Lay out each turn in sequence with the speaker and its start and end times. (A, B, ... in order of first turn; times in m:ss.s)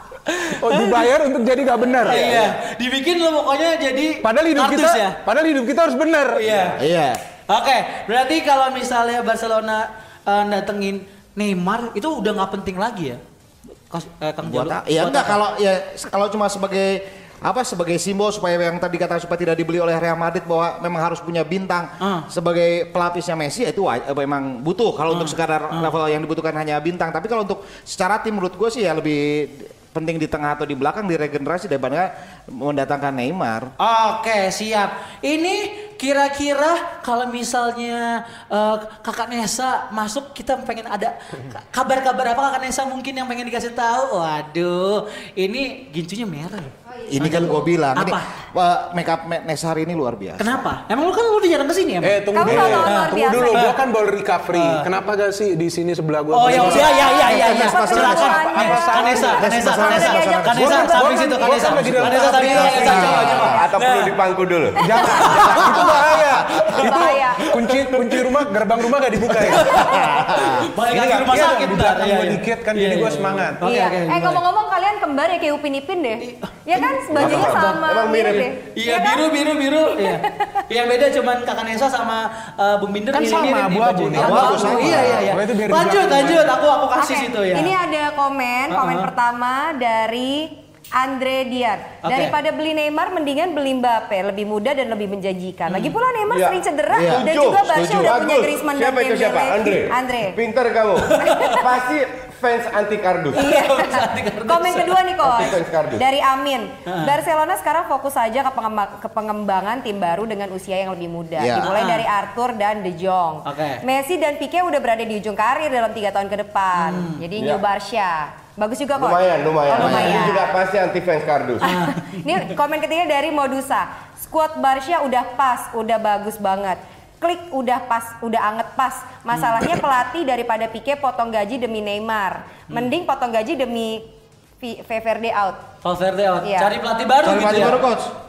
0:00.2-0:01.1 A
0:00.5-0:02.4 B
0:02.0-0:02.4 C
0:02.0-0:05.2 A
0:04.2-0:06.4 B
0:06.4-0:06.8 A
0:06.4-0:06.8 C
0:06.8-0:07.2 D
0:07.5-0:13.2 A
0:13.9-0:15.4 A
0:14.4-0:33.7 D
0:22.0-0:22.3 A
0:25.1-0:25.9 A
0:33.8-0:48.3 A
0:47.1-0:50.6 D
0:50.4-0:52.2 A
0:52.0-0:56.9 B
0:52.3-0:53.8 E
0:52.4-0:52.8 D
0:52.8-0:53.8 A
0:54.5-0:54.9 A
0:56.3-1:04.1 A
0:56.5-1:00.9 D
0:56.5-1:01.9 E
0:58.4-0:59.4 B
1:00.6-1:03.3 B
1:01.7-1:03.6 D
1:02.6-1:03.6 E
1:03.3-1:04.8 C
1:04.8-1:10.0 B
1:04.8-1:07.5 E
1:05.0-1:05.7 A
1:09.3-1:10.7 D
1:09.4-1:14.4 A
1:10.8-1:13.6 B
1:13.6-1:19.2 E
1:16.2-1:27.8 A
1:17.1-1:18.5 C
1:20.0-1:20.6 E
1:23.1-1:26.5 B
1:24.1-1:25.3 D
1:27.0-1:40.4 E
1:28.7-1:29.1 A
1:32.0-1:32.3 A
1:35.7-1:36.0 A
1:36.3-1:43.5 C
1:36.9-1:37.2 D
1:41.0-1:41.6 A
1:41.2-1:41.6 E
1:43.4-1:45.2 A
1:43.4-2:00.4 E
1:45.2-1:46.0 C
1:46.8-1:47.2 A
1:51.4-1:51.7 D
1:51.6-1:52.0 A
1:53.4-1:53.8 A
1:56.8-1:57.2 A
1:57.4-1:57.6 C
1:59.0-2:01.7 C
1:59.8-2:00.3 A
2:01.6-2:02.5 A
2:01.6-2:15.6 E
2:15.8-2:17.8 A
2:16.4-2:16.7 E
2:17.2-2:18.1 D